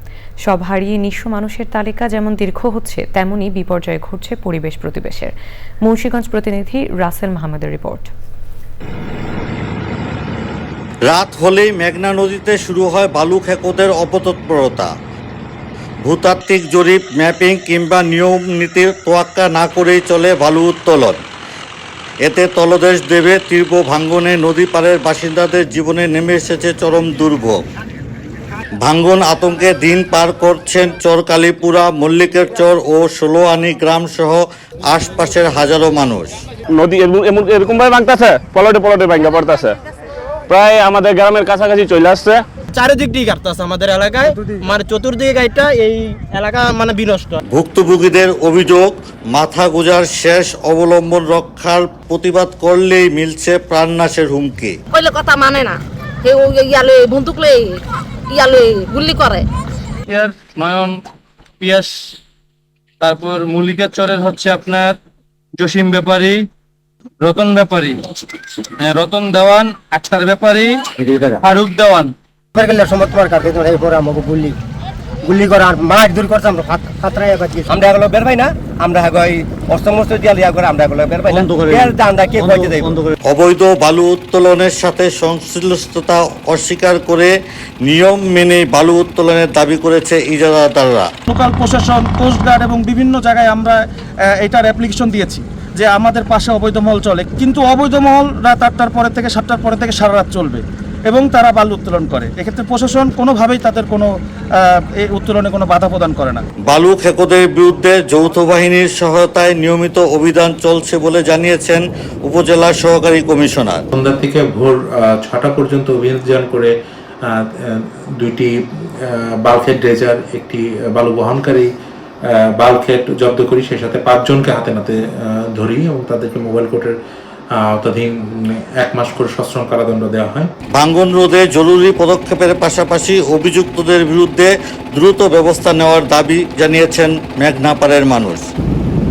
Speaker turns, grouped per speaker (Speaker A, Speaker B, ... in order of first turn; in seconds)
Speaker A: 0.5-5.3, 5.8-8.1
Speaker B: 11.1-14.9, 16.1-21.2, 22.2-27.6, 28.8-36.4, 47.5-54.8, 83.2-87.3, 87.8-91.1, 106.7-113.8, 130.8-138.5
Speaker C: 36.7-39.8, 40.5-42.4
Speaker D: 42.7-47.4
Speaker E: 54.9-57.8, 58.3-59.5
Speaker F: 60.1-60.9, 61.6-61.9, 63.0-64.9, 65.6-66.4, 67.2-67.9, 68.8-70.7, 71.5-72.1
Speaker G: 72.5-74.5, 75.2-83.0
Speaker H: 91.3-93.7, 94.4-104.0, 105.0-106.4
Speaker I: 113.9-116.7, 117.3-118.5, 119.4-121.7, 122.6-124.9, 125.5-126.9, 127.6-130.5